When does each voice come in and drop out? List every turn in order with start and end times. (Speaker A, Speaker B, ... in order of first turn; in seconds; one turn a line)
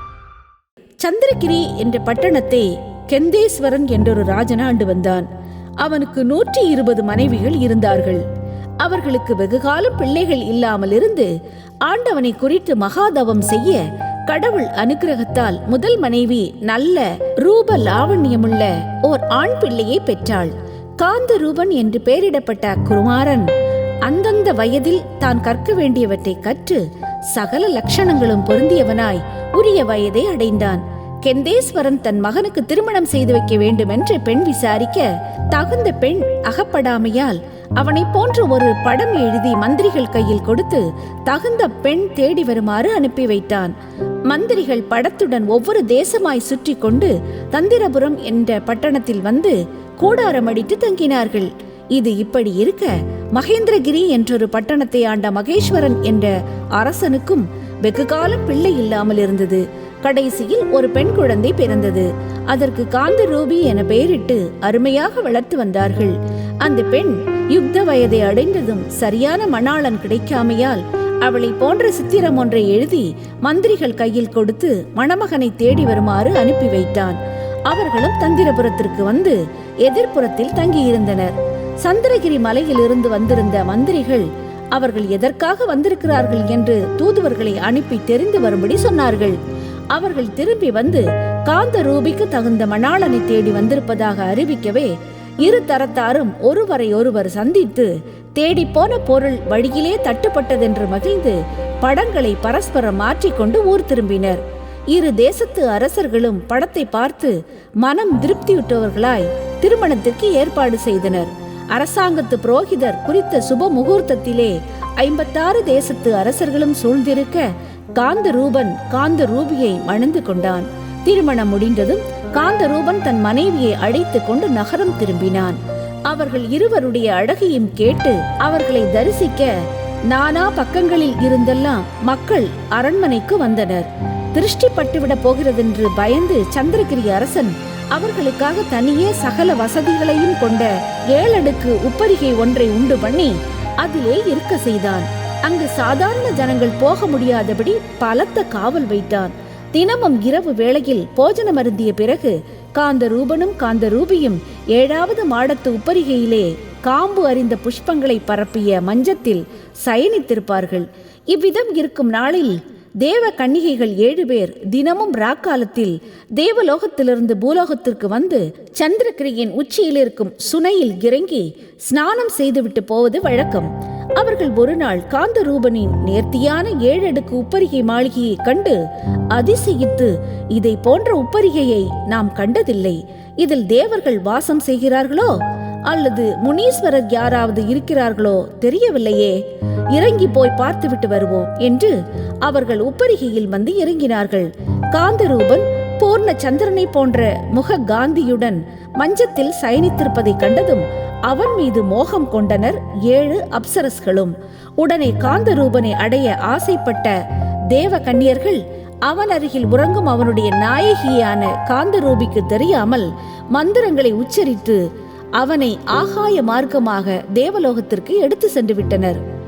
Speaker A: 1.0-5.3
Speaker A: 5.8-8.2
Speaker A: 8.8-11.3
Speaker A: 11.9-23.5
Speaker A: 24.1-26.8
Speaker A: 27.3-43.7
Speaker A: 44.3-77.2
Speaker A: 77.7-89.4
Speaker A: 89.9-94.9
Speaker A: 95.4-104.4
Speaker A: 104.9-117.4
Speaker A: 118.0-125.6
Speaker A: 126.1-129.5
Speaker A: 130.1-178.8
Speaker A: 179.3-185.3
Speaker A: 185.9-189.4
Speaker A: 189.9-191.9
Speaker A: 192.4-207.1
Speaker A: 207.7-214.8
Speaker A: 215.4-219.2